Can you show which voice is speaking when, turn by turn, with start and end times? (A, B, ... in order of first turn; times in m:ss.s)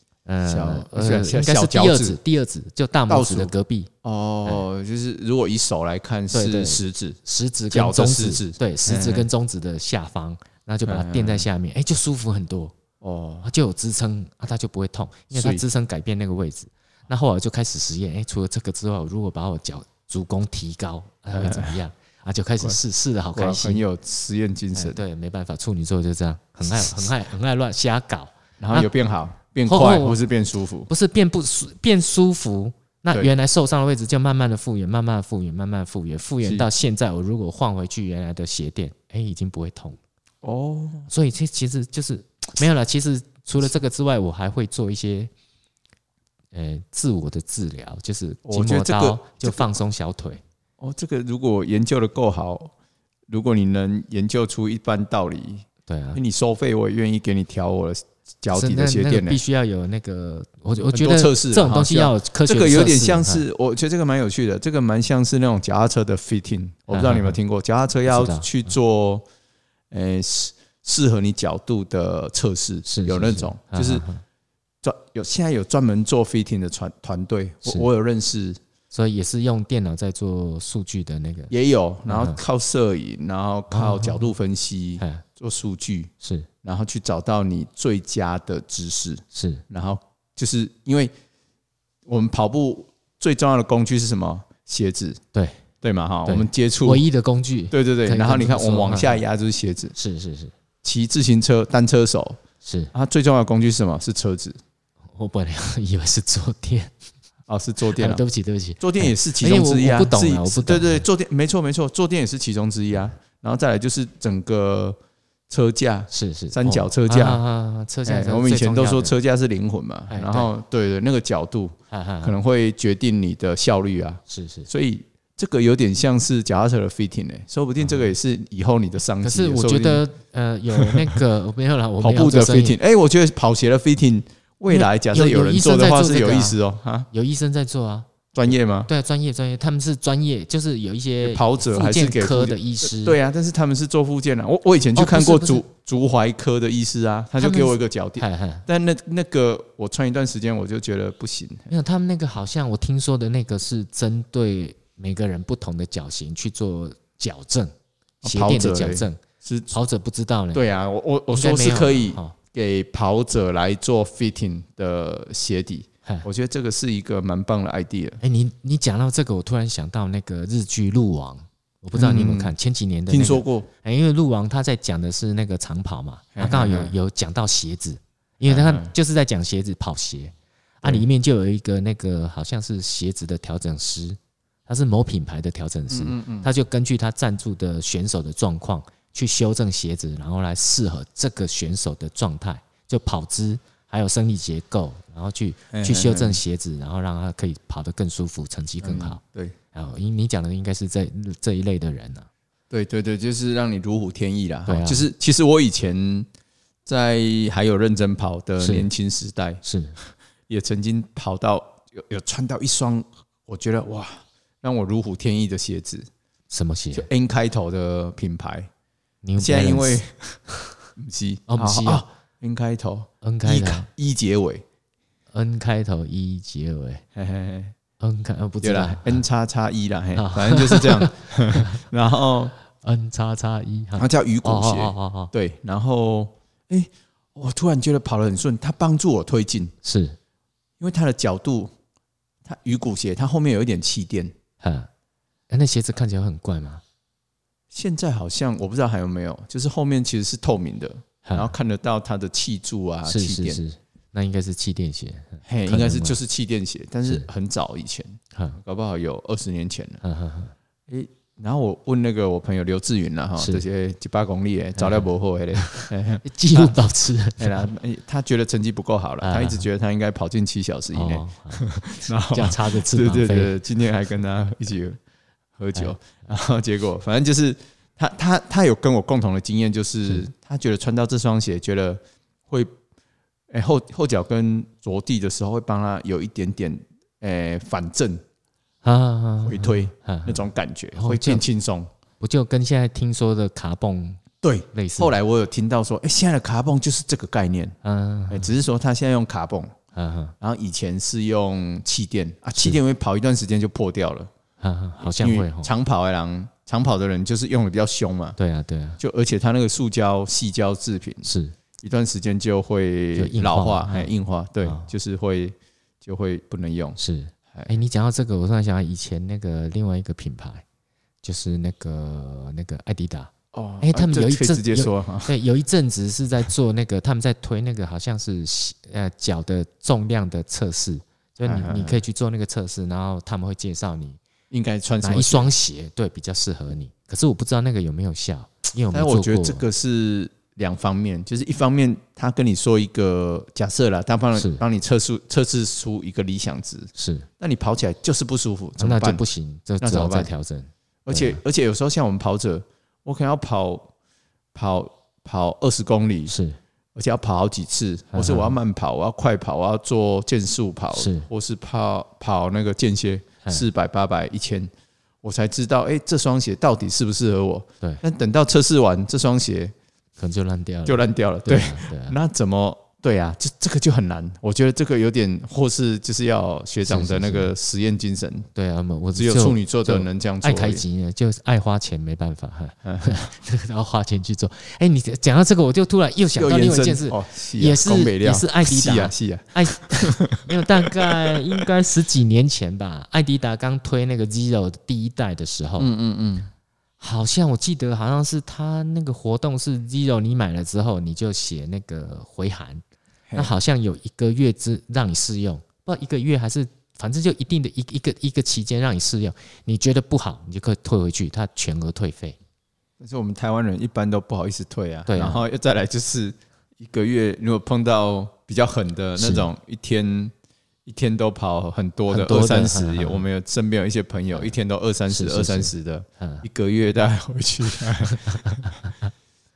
0:00.3-0:03.9 A
0:00.4-0:02.2 B
0:03.1-0:03.5 B
0:04.0-0:07.2 B
0:06.3-0:12.7 A
0:07.7-0:09.3 B
0:10.9-0:11.5 B
0:13.0-0:13.5 B
0:13.4-0:23.8 A
0:15.3-0:15.6 B
0:21.3-0:21.8 B
0:23.3-0:25.0 B
0:24.8-0:28.9 A
0:26.7-0:27.1 B
0:28.6-0:30.9 B
0:29.7-0:30.2 A
0:30.9-0:40.0 A
0:40.4-0:41.1 B
0:41.1-0:45.3 A
0:46.5-0:50.4 A
0:48.4-0:49.7 B
0:50.8-0:52.7 B
0:53.3-0:59.4 B
0:55.9-0:56.2 A
0:58.5-1:03.4 A
1:00.9-1:09.2 B
1:06.9-1:07.4 A
1:08.1-1:08.5 A
1:09.9-1:14.0 B
1:12.9-1:14.2 A
1:14.8-1:18.6 B
1:18.9-1:21.5 A
1:21.5-1:31.1 B
1:22.1-1:22.4 A
1:23.7-1:24.3 A
1:26.2-1:26.5 A
1:29.3-1:29.6 A
1:32.1-1:35.2 B
1:35.3-1:35.6 A
1:35.8-1:37.0 B
1:36.3-1:39.2 A
1:37.7-1:39.9 B
1:40.0-1:40.5 A
1:40.8-1:42.4 B
1:42.6-1:42.9 A
1:42.9-1:44.6 B
1:45.2-1:46.9 A
1:47.5-1:48.2 B
1:47.9-1:51.0 A
1:48.8-1:55.0 B
1:55.5-1:57.4 B
1:56.1-1:59.2 A
1:58.0-2:10.0 B
2:00.1-2:00.5 A
2:01.9-2:02.4 A
2:04.3-2:04.7 A
2:07.8-2:08.1 A
2:09.2-2:12.8 A
2:10.7-2:11.2 B
2:12.0-2:17.1 B
2:14.7-2:16.6 A
2:17.1-2:23.2 A
2:18.3-2:18.9 B
2:21.2-2:31.7 B
2:25.0-2:25.6 A
2:27.4-2:28.7 A
2:31.7-2:37.7 A
2:38.2-2:39.7 B
2:38.2-2:40.6 A
2:40.5-2:48.2 B
2:41.3-2:42.4 A
2:48.2-3:19.2 A
2:52.0-2:52.5 B
2:53.1-2:53.7 B
2:56.4-2:56.9 B
2:58.5-2:58.9 B
3:05.9-3:06.5 B
3:15.7-3:16.4 B
3:18.8-3:19.6 B
3:19.7-3:22.3 A
3:22.7-3:26.3 B
3:24.7-3:25.1 A
3:26.9-3:29.6 B
3:28.6-3:28.9 A
3:29.6-3:30.0 A
3:30.5-3:36.1 B
3:36.5-3:37.1 A
3:36.9-3:38.7 B
3:39.2-3:40.0 A
3:39.4-3:40.4 B
3:41.0-3:44.6 B
3:41.5-3:42.1 A
3:43.2-3:43.9 A
3:45.3-3:47.0 A
3:47.2-3:47.8 B
3:48.0-3:49.2 A
3:48.6-3:52.5 B
3:50.2-3:51.8 A
3:52.8-3:55.3 A
3:54.0-3:59.7 B
3:59.8-4:00.2 A
4:00.8-4:01.7 B
4:02.4-4:04.3 B
4:04.6-4:04.9 A
4:05.5-4:06.8 A
4:07.7-4:13.6 B
4:11.2-4:11.5 A
4:13.1-4:16.2 A
4:15.5-4:20.0 B
4:20.0-4:20.5 A
4:20.9-4:26.8 B
4:23.4-4:23.6 A
4:24.8-4:27.7 A
4:27.4-4:35.0 B
4:29.2-4:29.7 A
4:30.9-4:33.6 A
4:35.6-4:42.8 B
4:43.5-4:48.2 B
4:48.8-4:51.4 A
4:49.4-4:51.9 B
4:52.2-4:55.1 A
4:54.4-4:57.8 B
4:57.8-4:58.5 A
4:58.3-4:59.8 B
5:00.0-5:00.3 A
5:00.4-5:04.3 B
5:04.6-5:05.7 A
5:05.0-5:08.4 B
5:08.4-5:09.0 A
5:09.0-5:11.3 B
5:11.2-5:11.6 A
5:11.8-5:17.0 B
5:13.2-5:14.1 A
5:14.6-5:14.9 A
5:17.0-5:20.6 A
5:21.2-5:34.2 A
5:23.5-5:25.4 B
5:31.4-5:32.0 B
5:34.5-5:35.5 B
5:35.0-5:39.6 A
5:38.9-5:49.2 B
5:44.4-5:44.6 A
5:47.0-5:47.3 A
5:48.8-5:51.4 A
5:49.8-5:50.3 B
5:51.1-5:53.9 B
5:54.5-5:56.3 B
5:56.3-5:56.6 A
5:57.0-6:04.7 B
5:58.1-5:58.6 A
6:01.0-6:01.3 A
6:05.2-6:09.7 B
6:10.2-6:12.2 A
6:10.9-6:18.5 B
6:16.9-6:17.5 A
6:18.6-6:35.9 A
6:19.2-6:20.8 B
6:22.8-6:23.3 B
6:26.4-6:31.6 B
6:35.8-6:36.5 B
6:37.0-6:42.8 A
6:43.4-6:52.4 A
6:53.0-7:00.3 B
6:55.1-6:55.4 A
6:59.2-6:59.5 A
7:00.9-7:08.8 B
7:02.1-7:03.2 A
7:05.1-7:06.5 A
7:08.1-7:09.1 A